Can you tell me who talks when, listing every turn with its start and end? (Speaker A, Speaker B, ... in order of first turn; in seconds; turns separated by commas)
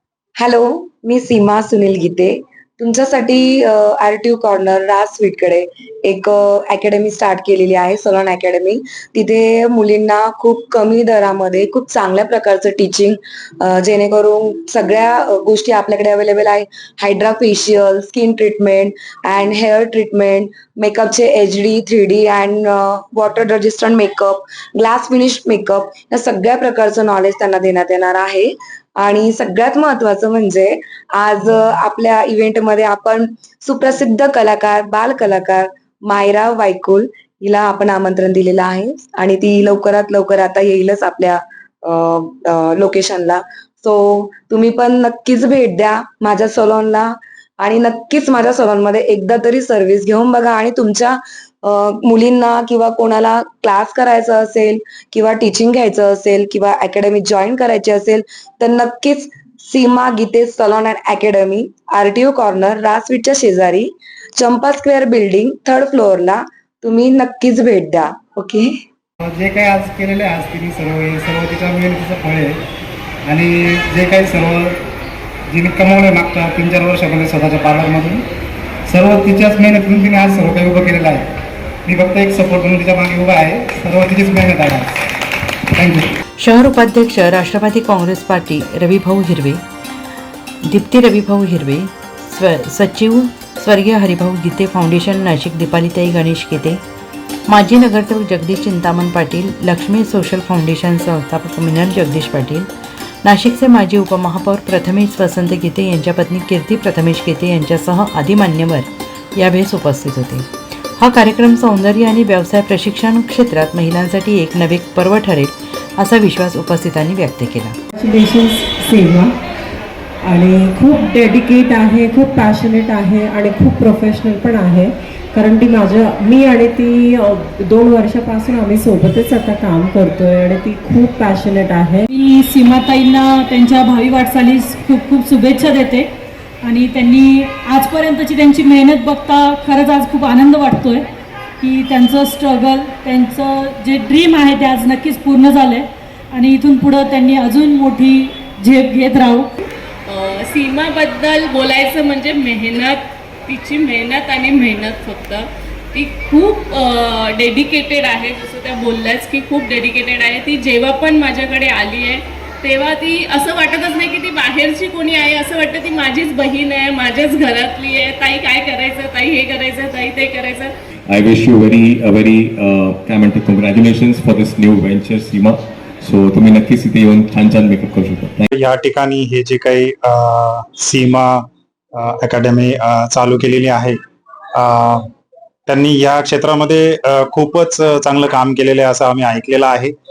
Speaker A: 0.4-68.7, Speaker B: 69.2-72.5, Speaker B: 73.3-74.8, Speaker B: 75.5-78.2, Speaker B: 78.9-81.3, Speaker B: 81.9-85.0, Speaker B: 85.8-86.1, Speaker C: 86.4-89.6, Speaker C: 90.7-96.8, Speaker C: 97.5-102.7, Speaker C: 103.2-110.5, Speaker C: 111.0-117.8, Speaker D: 118.0-119.3, Speaker D: 120.2-132.0, Speaker E: 132.1-136.1, Speaker E: 136.6-141.0, Speaker E: 141.6-149.5, Speaker F: 150.1-170.7, Speaker G: 171.1-178.5, Speaker H: 178.5-181.4, Speaker H: 182.0-184.0, Speaker H: 184.6-185.1, Speaker H: 185.7-189.9